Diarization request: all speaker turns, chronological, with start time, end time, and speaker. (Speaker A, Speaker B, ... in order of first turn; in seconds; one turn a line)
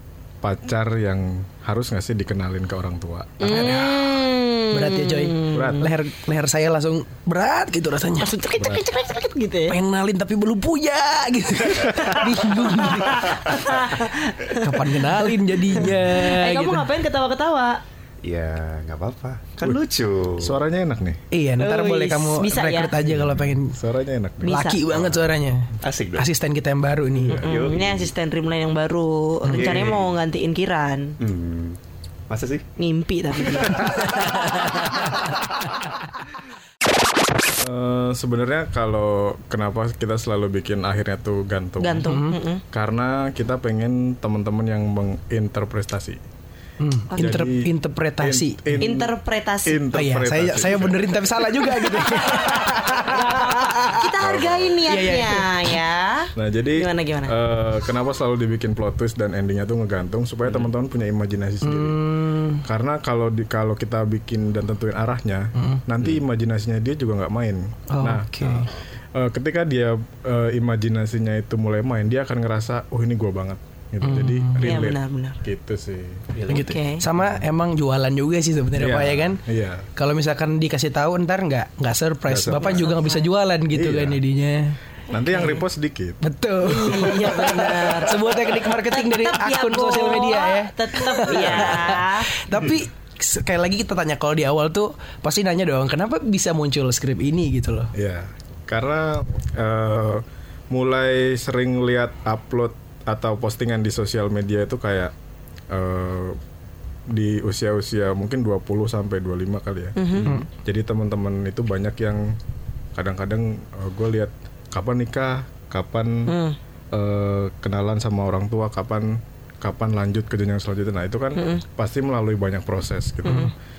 Speaker A: 0.4-3.7
Speaker B: 3.4-4.2
Speaker C: 3.5-5.9
Speaker B: 4.7-8.3
Speaker A: 5.5-5.9
Speaker C: 8.2-9.8
Speaker A: 8.6-8.8
Speaker B: 9.7-13.5
Speaker C: 12.0-17.8
Speaker B: 14.6-16.9
Speaker D: 18.2-20.6
Speaker A: 20.4-21.2
Speaker B: 21.3-23.8
Speaker C: 21.6-22.9
Speaker A: 23.1-25.1
Speaker B: 24.4-27.4
Speaker C: 24.4-24.8
Speaker D: 25.8-26.3
Speaker D: 27.4-28.1
Speaker C: 27.4-31.2
Speaker B: 29.5-29.8
Speaker D: 29.5-30.1
Speaker D: 31.2-31.8
Speaker D: 32.3-32.7
Speaker C: 32.8-35.1
Speaker D: 33.6-34.0
Speaker A: 37.6-42.2
Speaker C: 41.8-42.6
Speaker B: 42.0-42.4
Speaker A: 42.7-46.2
Speaker B: 46.8-48.9
Speaker C: 47.1-47.4
Speaker A: 47.2-49.1
Speaker C: 48.8-49.8
Speaker A: 49.6-51.5
Speaker B: 49.9-54.1
Speaker C: 52.3-57.3
Speaker A: 54.2-54.8
Speaker B: 54.9-55.8
Speaker A: 56.4-62.0
Speaker B: 61.6-62.6
Speaker A: 62.6-76.4
Speaker B: 65.6-65.8
Speaker B: 67.9-68.7
Speaker B: 74.0-74.8
Speaker C: 74.6-75.4
Speaker D: 76.3-76.7
Speaker B: 76.5-79.4
Speaker C: 76.6-77.0
Speaker A: 78.8-79.9
Speaker B: 80.0-84.8
Speaker A: 82.3-82.7
Speaker C: 82.6-83.3
Speaker A: 83.7-84.2
Speaker A: 85.1-86.2
Speaker C: 85.3-85.6
Speaker B: 86.2-97.9
Speaker C: 86.6-92.5
Speaker A: 97.9-105.1
Speaker A: 105.7-106.4
Speaker A: 107.1-112.4
Speaker C: 110.0-110.3
Speaker A: 113.0-116.3
Speaker C: 116.3-116.6
Speaker A: 116.9-123.5
Speaker C: 121.4-121.6
Speaker B: 123.2-123.5
Speaker C: 123.3-123.5